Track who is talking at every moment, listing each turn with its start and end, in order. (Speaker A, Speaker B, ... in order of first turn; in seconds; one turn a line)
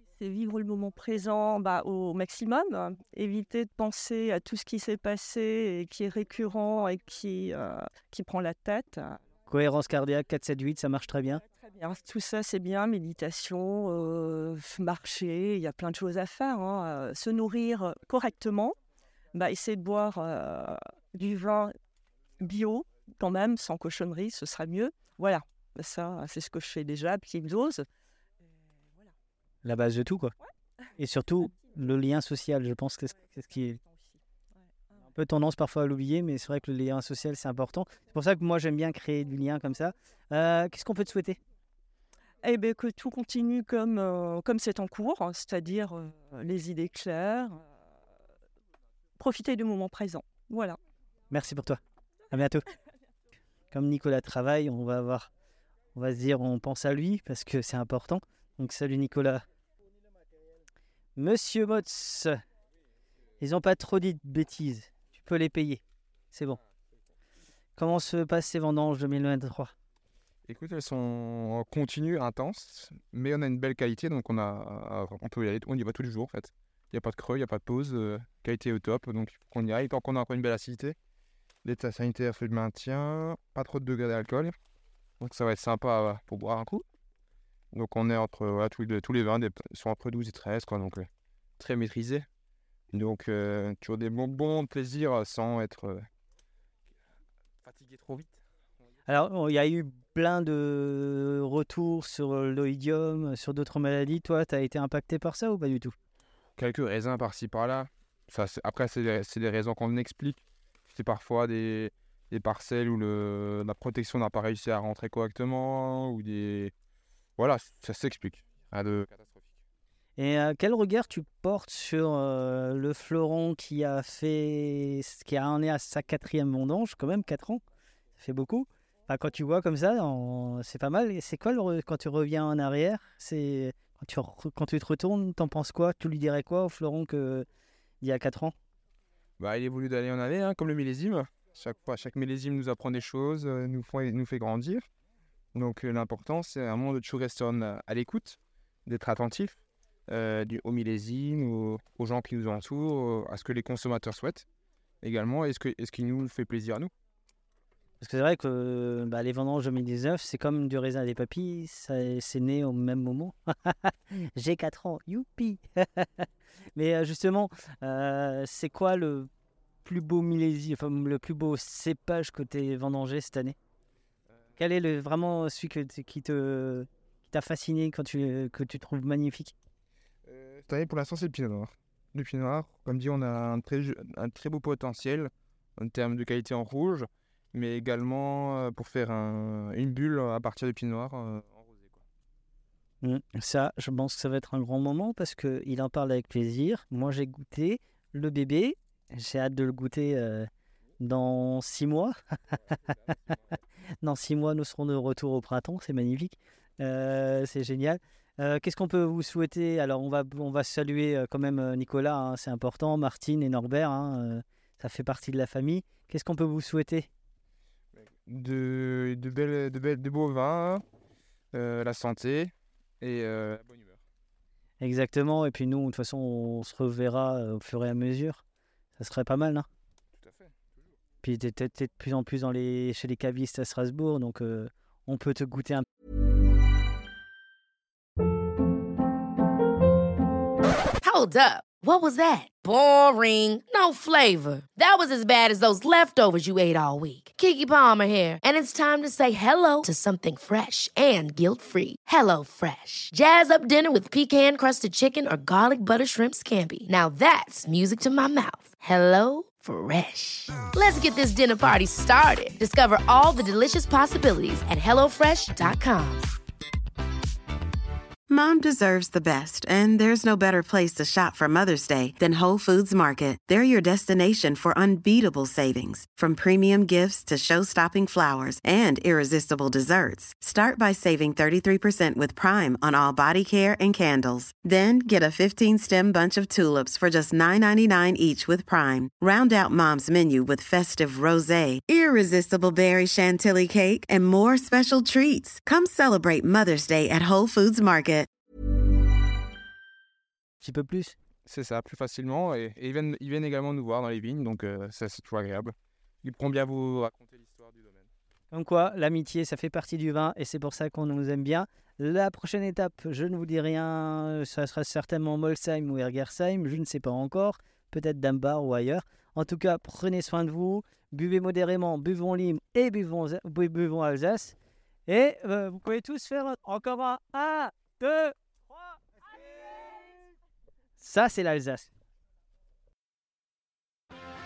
Speaker A: 0.2-9.2
Speaker B: 9.5-11.4
Speaker A: 11.6-18.8
Speaker A: 19.3-21.7
Speaker A: 22.4-27.9
Speaker B: 29.6-30.3
Speaker B: 31.0-33.8
Speaker B: 35.0-41.4
Speaker A: 42.4-47.6
Speaker A: 49.2-50.8
Speaker B: 51.3-51.8
Speaker B: 52.3-52.6
Speaker B: 53.7-55.3
Speaker B: 56.0-59.4
Speaker B: 61.1-62.4
Speaker B: 63.4-65.8
Speaker B: 66.3-66.6
Speaker B: 67.8-69.7
Speaker C: 70.5-81.0
Speaker C: 81.6-84.5
Speaker C: 85.2-86.8
Speaker C: 87.7-91.1
Speaker C: 91.6-92.2
Speaker C: 92.9-96.0
Speaker C: 97.6-98.4
Speaker B: 99.1-105.9
Speaker C: 106.6-116.7
Speaker C: 117.4-119.4
Speaker B: 120.2-127.6
Speaker B: 128.2-137.4
Speaker B: 138.0-138.6
Speaker C: 139.4-144.8
Speaker C: 145.5-154.5
Speaker C: 155.0-156.9
Speaker B: 158.0-169.3
Speaker B: 169.8-173.6
Speaker B: 174.6-179.5
Speaker C: 180.2-192.0
Speaker B: 193.0-203.3
Speaker B: 204.0-217.1
Speaker C: 217.9-220.8
Speaker C: 221.5-224.0
Speaker B: 224.8-228.4
Speaker B: 229.0-229.7
Speaker C: 230.2-230.5
Speaker B: 231.2-235.8
Speaker D: 241.0-266.3
Speaker E: 268.3-298.3
Speaker B: 300.6-301.1
Speaker C: 301.4-308.1
Speaker B: 308.5-324.6
Speaker B: 325.1-328.9
Speaker B: 331.0-331.9